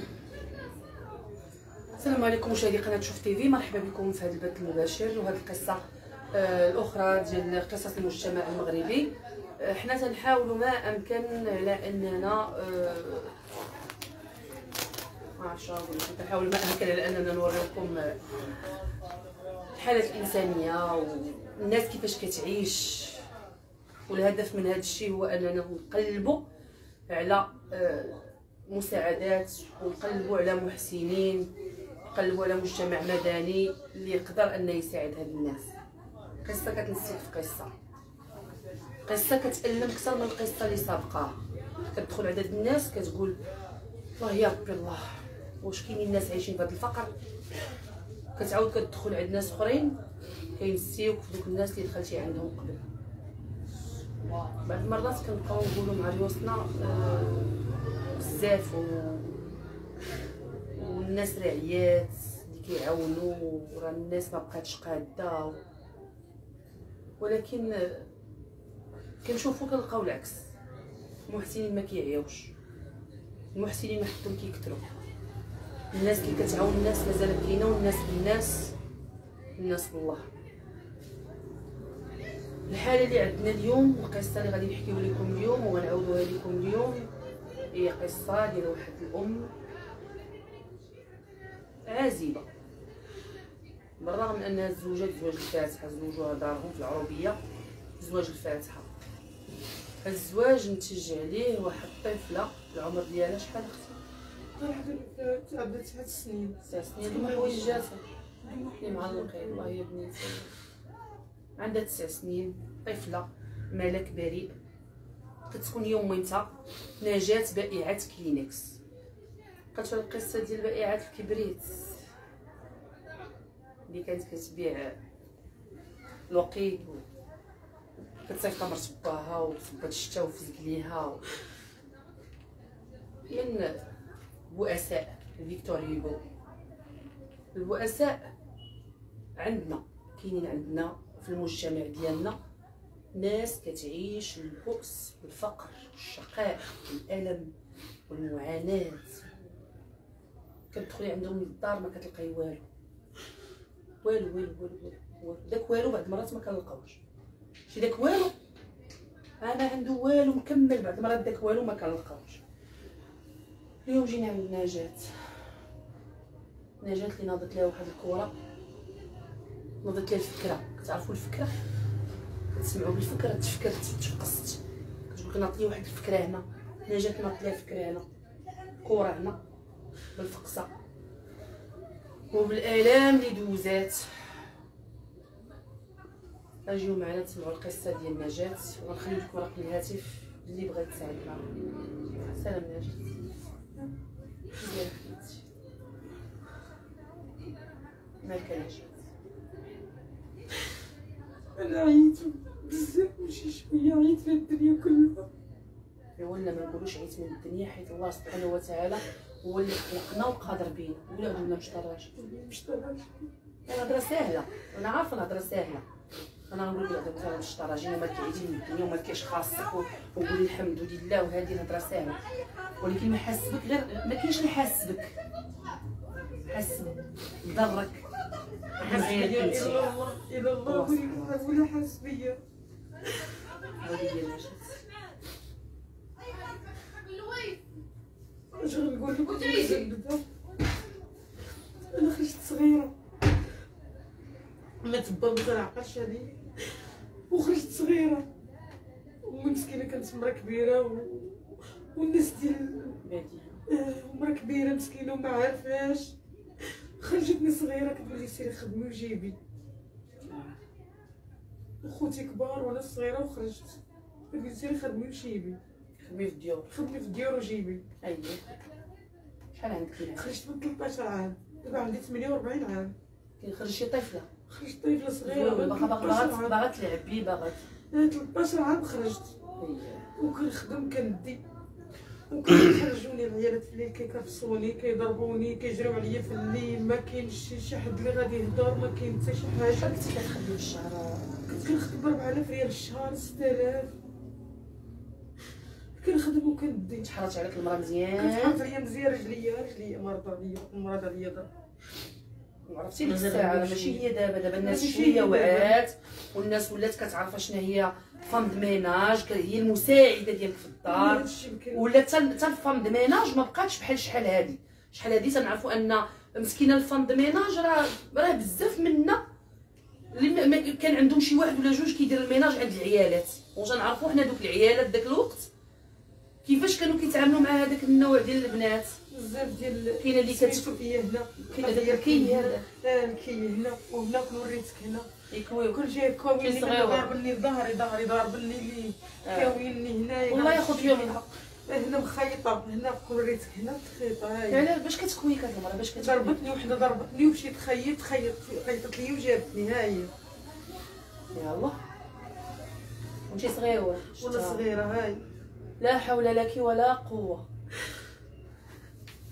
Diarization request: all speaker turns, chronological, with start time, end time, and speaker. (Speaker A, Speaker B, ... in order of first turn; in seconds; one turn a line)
Speaker A: 2.0-5.8
Speaker A: 6.3-13.3
Speaker A: 15.4-18.2
Speaker A: 19.7-23.2
Speaker A: 24.1-26.4
Speaker A: 27.1-31.5
Speaker A: 32.1-35.7
Speaker A: 36.4-37.7
Speaker A: 39.0-41.4
Speaker A: 41.9-43.4
Speaker A: 44.2-47.1
Speaker A: 48.4-50.0
Speaker A: 50.6-52.8
Speaker A: 54.2-57.6
Speaker A: 58.1-59.4
Speaker A: 60.7-65.6
Speaker A: 67.2-68.1
Speaker A: 69.2-70.5
Speaker A: 71.3-72.5
Speaker A: 73.5-75.0
Speaker A: 75.9-78.7
Speaker A: 79.6-80.3
Speaker A: 82.7-87.1
Speaker A: 87.7-89.5
Speaker A: 91.8-92.5
Speaker A: 94.0-97.4
Speaker A: 98.0-98.9
Speaker A: 100.0-104.0
Speaker B: 104.6-107.8
Speaker A: 106.6-108.0
Speaker B: 108.4-109.8
Speaker A: 108.8-110.5
Speaker A: 111.6-114.6
Speaker A: 115.5-118.8
Speaker A: 119.7-122.0
Speaker A: 123.9-125.0
Speaker A: 126.3-127.0
Speaker A: 128.2-131.2
Speaker A: 133.3-133.9
Speaker A: 134.5-136.2
Speaker A: 137.5-138.3
Speaker A: 139.3-142.4
Speaker A: 143.1-147.5
Speaker A: 148.1-149.3
Speaker A: 150.7-152.7
Speaker A: 154.0-157.0
Speaker A: 157.7-158.3
Speaker A: 159.4-162.4
Speaker A: 163.8-165.4
Speaker A: 166.8-168.3
Speaker A: 169.8-171.5
Speaker A: 172.5-178.1
Speaker A: 178.8-179.4
Speaker A: 180.2-180.7
Speaker A: 182.3-184.4
Speaker A: 186.6-191.5
Speaker A: 192.1-193.3
Speaker A: 194.6-195.4
Speaker A: 198.2-198.9
Speaker B: 201.6-205.3
Speaker A: 206.2-212.1
Speaker B: 212.2-213.3
Speaker A: 213.7-215.8
Speaker A: 216.5-222.2
Speaker A: 222.8-225.2
Speaker A: 226.4-228.0
Speaker B: 228.8-232.4
Speaker A: 228.8-229.9
Speaker A: 230.6-231.5
Speaker A: 233.8-234.8
Speaker B: 238.5-240.2
Speaker A: 239.2-239.9
Speaker B: 241.9-242.9
Speaker B: 244.8-246.3
Speaker B: 247.3-248.2
Speaker B: 249.2-253.0
Speaker A: 253.0-253.6
Speaker B: 253.7-256.1
Speaker B: 257.0-259.4
Speaker A: 260.2-260.6
Speaker B: 261.8-263.8
Speaker B: 264.3-265.6
Speaker A: 266.0-266.7
Speaker B: 266.7-267.9
Speaker A: 268.0-268.6
Speaker A: 269.5-270.3
Speaker B: 270.1-272.9
Speaker A: 273.4-274.3
Speaker B: 274.5-276.6
Speaker A: 275.2-277.6
Speaker B: 277.9-279.4
Speaker A: 279.6-280.1
Speaker B: 280.1-281.4
Speaker B: 282.3-289.9
Speaker A: 289.7-291.4
Speaker B: 291.4-293.9
Speaker B: 296.0-297.1
Speaker A: 297.0-298.6
Speaker B: 298.1-301.5
Speaker A: 302.7-319.2
Speaker B: 303.1-304.0
Speaker B: 304.6-305.7
Speaker B: 310.9-311.9
Speaker A: 320.1-325.5
Speaker A: 326.4-328.9
Speaker B: 329.1-335.1
Speaker A: 330.0-330.8
Speaker A: 331.4-332.6
Speaker A: 335.3-335.8
Speaker B: 335.7-344.7
Speaker A: 336.4-337.1
Speaker A: 339.2-339.6
Speaker A: 340.3-341.3
Speaker A: 344.5-346.4
Speaker B: 345.9-350.1
Speaker A: 351.3-351.8
Speaker A: 353.3-354.6
Speaker B: 354.2-355.2
Speaker A: 355.8-357.4